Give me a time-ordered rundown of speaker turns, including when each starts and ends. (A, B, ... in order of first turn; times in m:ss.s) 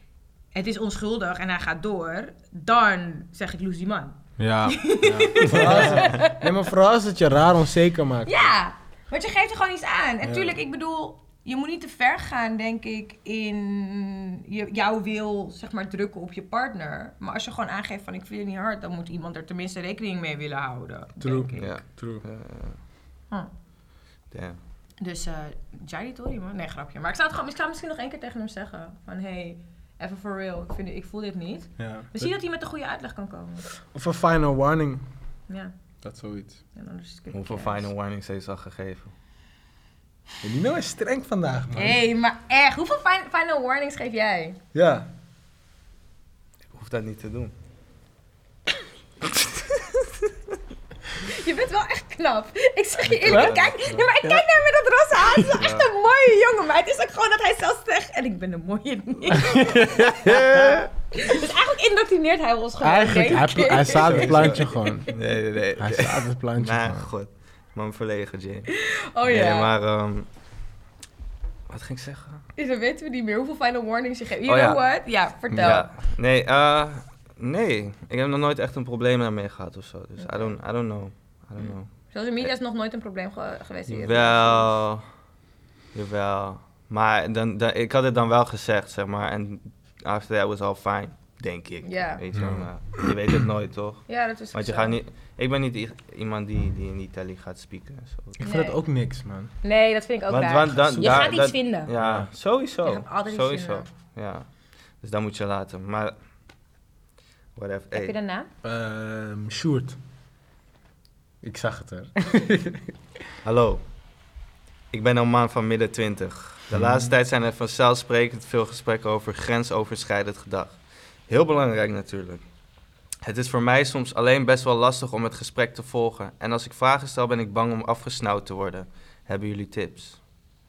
0:00.6-0:06.5 A
0:04.4-0:08.5 B
0:05.2-0:06.2 C
0:08.2-0:21.8 A
0:10.2-0:10.6 B
0:21.2-0:22.2 B
0:21.6-0:22.8 C
0:24.3-0:24.6 C
0:25.0-0:33.7 A
0:31.8-0:32.3 B
0:33.9-0:35.0 B
0:36.0-0:36.6 B
0:36.7-0:37.9 A
0:37.3-0:39.1 C
0:40.4-0:42.0 B
0:41.8-0:44.6 A
0:44.7-0:45.1 B
0:46.7-0:47.5 C
0:49.2-0:50.3 C
0:51.2-1:05.1 A
0:53.0-0:54.1 C
0:53.3-0:53.5 B
0:55.5-0:55.9 C
0:59.3-1:00.8 B
1:00.2-1:00.9 C
1:02.8-1:05.1 B
1:03.9-1:08.7 C
1:05.8-1:07.1 B
1:08.7-1:09.7 A
1:09.2-1:10.3 C
1:11.7-1:12.4 C
1:12.6-1:15.9 A
1:14.5-1:14.8 C
1:15.5-1:21.9 C
1:20.2-1:20.5 A
1:22.1-1:24.7 A
1:23.9-1:25.0 C
1:25.9-1:38.4 C
1:31.8-1:32.2 A
1:32.3-1:33.1 B
1:34.1-1:35.0 A
1:38.4-1:39.5 B
1:38.4-1:38.8 A
1:39.6-1:41.9 A
1:40.3-1:44.5 C
1:40.9-1:41.3 B
1:42.0-1:42.3 B
1:42.8-1:43.9 A
1:45.0-1:46.2 C
1:47.6-1:48.2 C
1:47.9-1:48.5 A
1:48.6-1:50.0 B
1:51.4-1:52.9 B
1:53.4-1:53.8 C
1:54.9-2:02.4 C
1:56.7-1:57.1 B
2:03.2-2:10.2 C